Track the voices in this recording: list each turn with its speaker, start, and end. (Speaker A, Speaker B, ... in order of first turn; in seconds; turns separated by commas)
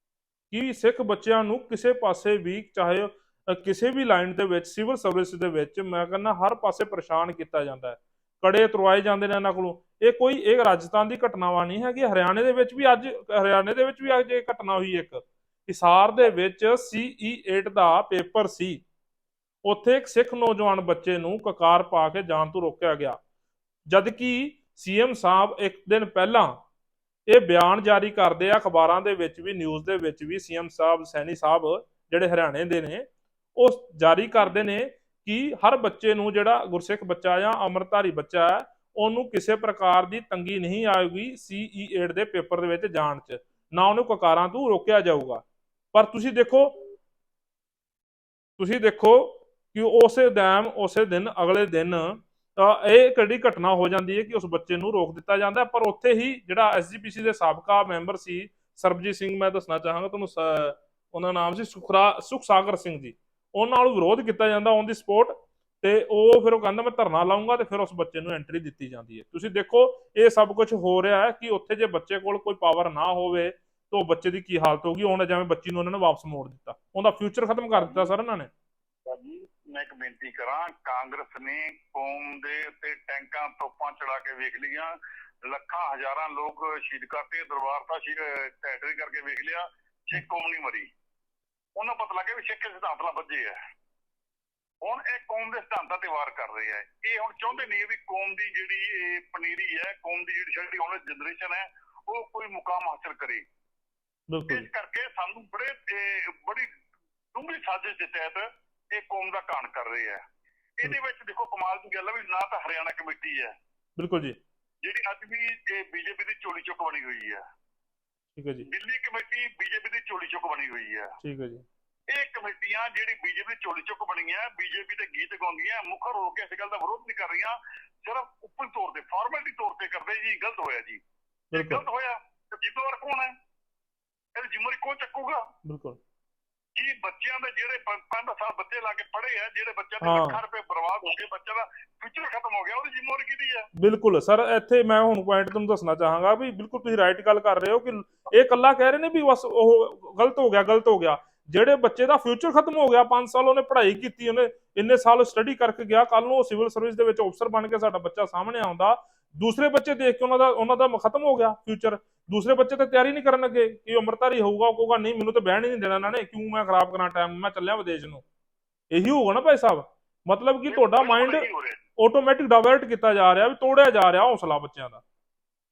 Speaker A: 0.5-18.8, Speaker A: 19.6-23.2, Speaker A: 23.9-26.6, Speaker A: 27.3-46.8, Speaker A: 48.6-78.5, Speaker B: 79.0-90.9, Speaker B: 91.8-93.6, Speaker B: 94.8-103.4, Speaker A: 104.3-104.7, Speaker B: 104.5-106.7, Speaker B: 107.3-110.2, Speaker B: 110.8-113.5, Speaker A: 114.0-114.4, Speaker B: 114.8-117.4, Speaker A: 118.3-118.7, Speaker B: 118.6-121.1, Speaker A: 121.2-121.6, Speaker B: 122.1-131.0, Speaker A: 131.5-131.8, Speaker B: 131.5-133.3, Speaker B: 134.3-135.4, Speaker A: 135.6-136.0, Speaker B: 136.8-143.7, Speaker A: 140.0-140.4, Speaker A: 143.7-168.2, Speaker A: 168.9-171.4, Speaker B: 170.7-171.8, Speaker A: 172.0-175.0